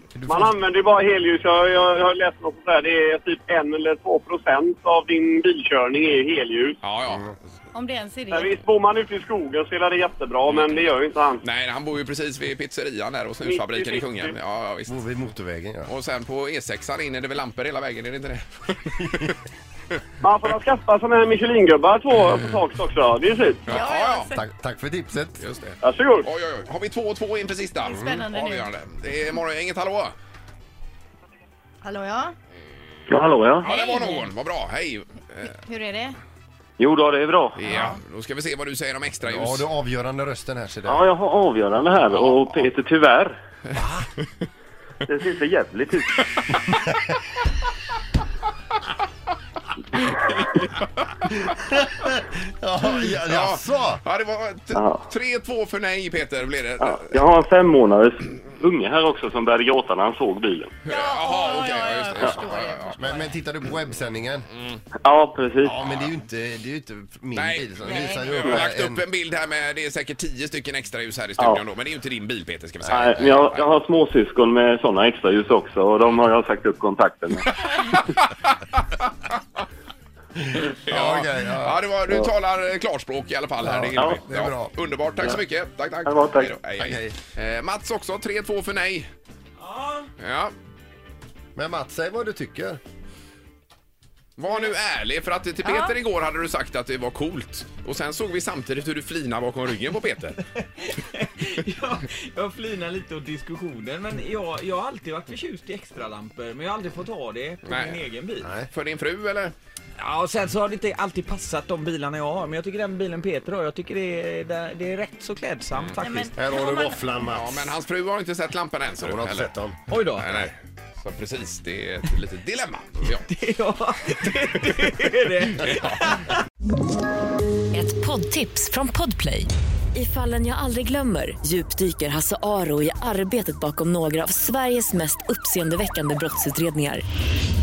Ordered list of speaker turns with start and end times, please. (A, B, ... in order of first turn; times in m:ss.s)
0:00.2-0:00.6 A
0:00.3-0:06.8 B
0:06.8-0:07.3 C
0:07.1-0:07.4 A
0:07.7-0:08.5 D
0:08.3-0:11.4 B
0:11.4-0:15.0 C
0:13.4-0:14.4 B
0:14.9-0:15.9 A
0:15.9-0:19.4 C
0:20.2-0:23.8 B
0:23.7-0:24.3 C
0:23.7-0:24.3 D
0:24.3-0:25.4 A
0:25.4-0:30.1 C
0:25.8-0:26.3 B
0:27.8-0:28.7 D
0:27.9-0:28.2 A
0:31.8-0:32.3 D
0:33.1-0:33.7 E
0:33.6-0:35.5 C
0:33.7-0:34.3 D
0:35.6-0:36.2 D
0:36.8-0:37.6 E
0:37.6-0:39.7 C
0:39.2-0:41.1 A
0:40.9-0:43.4 E
0:42.1-0:42.7 C
0:43.7-0:44.1 A
0:45.1-0:46.2 E
0:50.2-0:50.8 C
0:51.5-0:54.0 A
0:53.0-0:57.1 C
0:54.7-0:55.0 E
0:56.8-1:00.7 E
1:00.8-1:03.2 C
1:00.9-1:03.2 D
1:03.0-1:04.5 A
1:04.5-1:04.8 C
1:05.0-1:05.8 E
1:05.6-1:09.0 A
1:05.8-1:06.1 C
1:07.4-1:13.7 C
1:07.9-1:08.2 D
1:08.4-1:08.6 E
1:12.8-1:17.6 E
1:17.9-1:18.2 C
1:20.4-1:21.8 A
1:20.6-1:29.1 C
1:23.6-1:24.7 A
1:24.0-1:24.2 E
1:26.1-1:26.6 E
1:26.8-1:27.2 A
1:29.6-1:30.1 F
1:30.2-1:30.5 C
1:31.6-1:32.8 A
1:34.4-1:40.4 C
1:35.7-1:35.9 D
1:40.6-1:48.5 F
1:47.6-1:48.0 C
1:48.4-1:48.7 A
1:48.7-1:49.5 C
1:50.0-1:56.3 F
1:55.7-1:56.0 C
1:56.0-1:57.0 D
1:56.3-1:57.7 A
1:57.3-1:59.5 C
1:59.0-1:59.8 A
1:59.9-2:00.4 F
2:00.2-2:03.3 C
2:03.2-2:06.3 F
2:05.6-2:06.2 C
2:07.7-2:17.0 G